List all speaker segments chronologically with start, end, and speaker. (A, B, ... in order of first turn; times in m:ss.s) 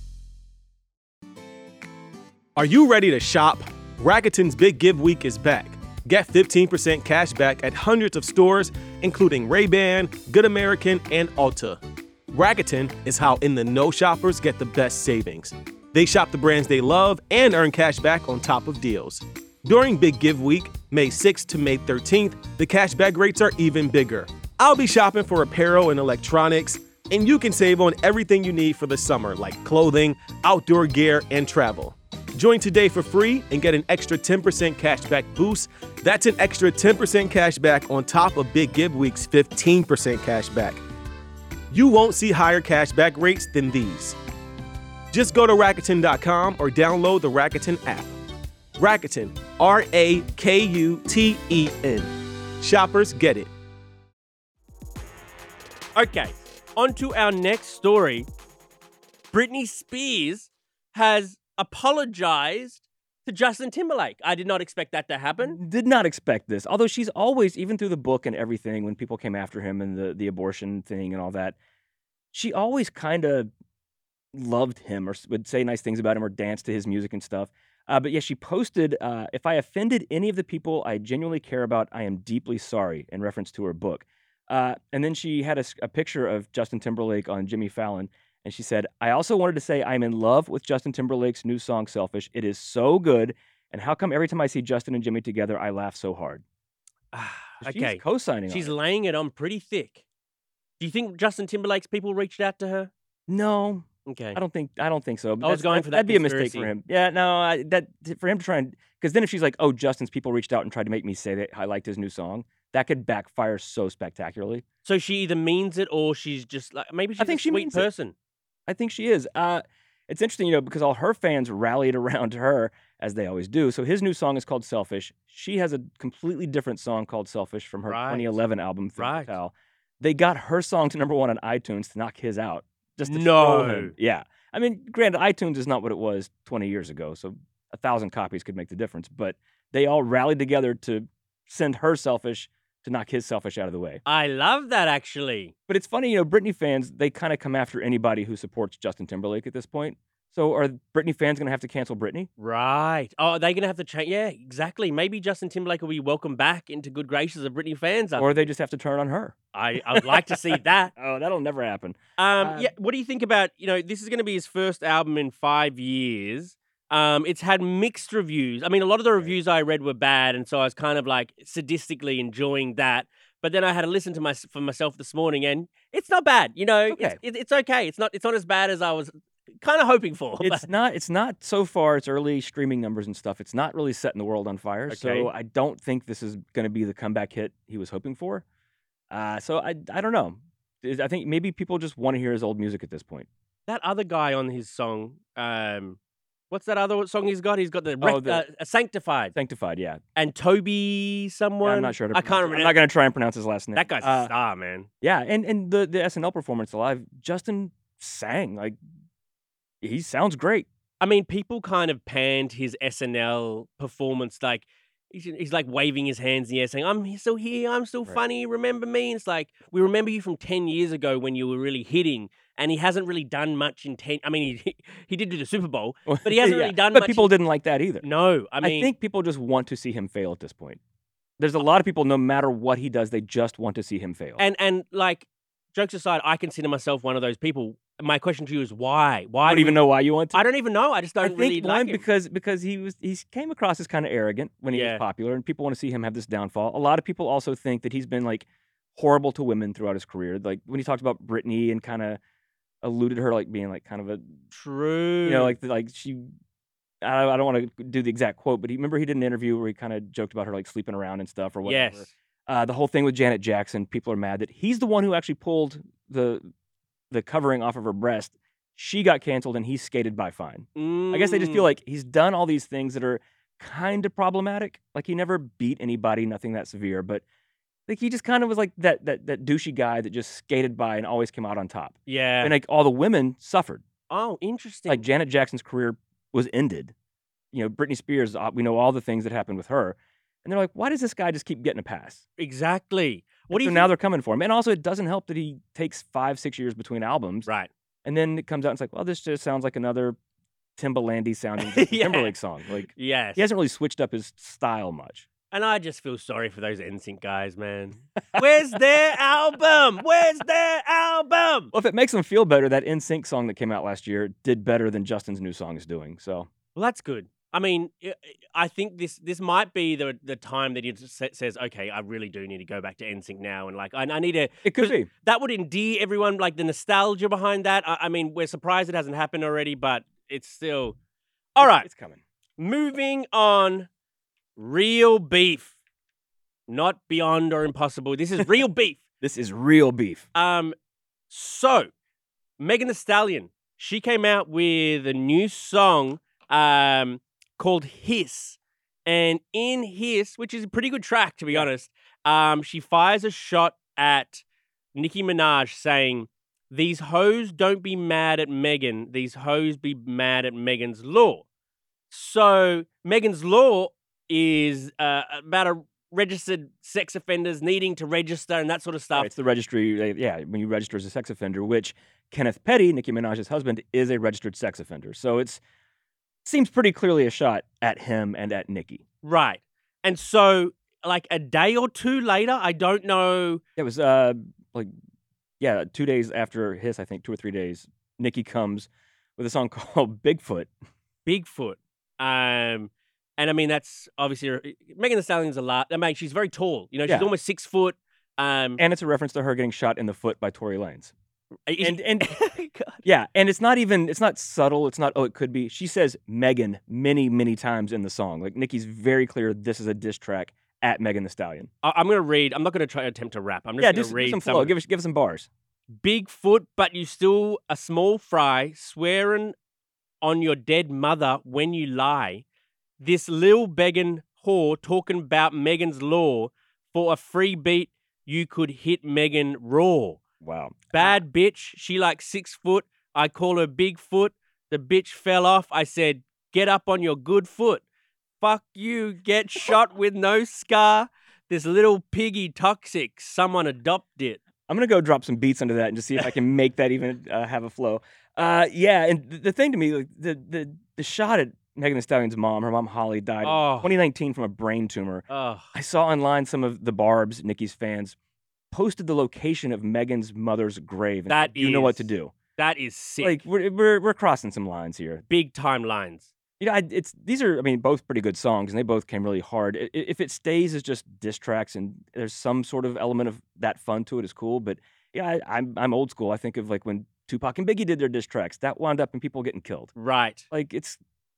0:02.6-0:40.8 A
0:41.7-0:44.2 A
0:45.1-0:48.2 A
0:48.8-0:53.5 A
0:56.0-0:58.3 B
0:59.3-1:05.6 B
1:05.4-1:11.6 C
1:12.3-1:13.5 C
1:14.3-1:36.4 C
1:37.1-1:40.0 B
1:37.6-1:38.7 C
1:40.8-1:42.9 B
1:43.3-1:54.6 C
1:44.1-1:44.4 B
1:45.4-1:46.7 B
1:54.8-1:58.2 B
1:57.2-1:57.9 C
1:58.7-2:24.0 C
2:07.9-2:08.4 B
2:09.0-2:09.4 B
2:13.0-2:13.9 B
2:24.1-2:25.5 B
2:25.7-2:32.3 C
2:32.4-2:38.5 B
2:38.2-2:39.4 C
2:39.5-2:40.9 B
2:39.9-2:42.7 C
2:42.2-3:00.7 B
2:56.9-2:57.2 C
3:00.4-3:08.4 C
3:04.9-3:05.3 B
3:09.1-3:13.3 C
3:13.7-3:16.0 B
3:16.5-3:19.4 B
3:18.0-3:18.4 C
3:19.4-3:20.0 C
3:20.2-3:22.8 B
3:21.6-3:24.3 C
3:23.8-3:24.9 B
3:25.0-3:28.8 C
3:29.8-3:30.7 C
3:31.0-3:47.3 B
3:46.1-3:48.1 C
3:48.0-3:48.9 B
3:48.6-3:50.8 C
3:51.4-3:54.4 C
3:54.4-4:02.0 B
3:59.4-4:00.5 C
4:01.2-4:12.2 C
4:04.7-4:05.0 B
4:12.8-4:14.4 C
4:14.5-4:15.6 B
4:15.2-4:16.2 C
4:17.0-4:26.5 C
4:21.6-4:22.1 B
4:27.1-4:37.2 C
4:30.8-4:31.7 B
4:37.9-4:43.8 C
4:42.1-4:42.6 B
4:44.1-4:45.1 B
4:44.9-4:46.9 C
4:47.5-4:52.2 C
4:52.4-4:53.9 B
4:53.5-4:57.5 C
4:58.0-5:00.2 C
5:00.8-5:05.3 C
5:01.6-5:02.4 B
5:02.9-5:03.5 B
5:05.5-5:11.7 B
5:11.7-5:16.5 C
5:16.8-5:31.0 B
5:24.6-5:25.1 C
5:31.6-5:31.9 B
5:31.6-5:32.2 C
5:32.6-5:33.9 B
5:34.6-5:35.8 B
5:36.7-5:39.0 B
5:39.2-5:40.3 C
5:40.3-5:40.8 B
5:41.3-5:41.9 B
5:42.6-5:54.4 B
5:55.0-6:01.4 B
6:02.1-6:09.3 B
6:09.1-6:15.6 C
6:16.4-6:19.0 C
6:19.2-6:23.6 B
6:23.8-6:24.9 C
6:25.6-6:30.7 C
6:31.2-6:38.8 B
6:37.1-6:37.3 C
6:38.8-6:41.1 C
6:41.7-6:43.0 B
6:41.8-6:42.4 C
6:43.0-6:51.7 C
6:51.8-6:54.8 B
6:53.8-6:55.5 C
6:56.0-6:59.6 B
7:00.2-7:02.4 B
7:03.0-7:10.2 B
7:10.4-7:11.2 C
7:10.9-7:17.8 B
7:18.4-7:24.4 B
7:24.7-7:38.2 C
7:33.4-7:33.9 B
7:35.3-7:35.7 B
7:38.7-7:42.3 C
7:41.3-7:43.5 B
7:43.2-7:45.2 C
7:45.3-7:46.3 B
7:46.6-7:59.9 C
8:00.0-8:00.5 B
8:00.5-8:01.0 C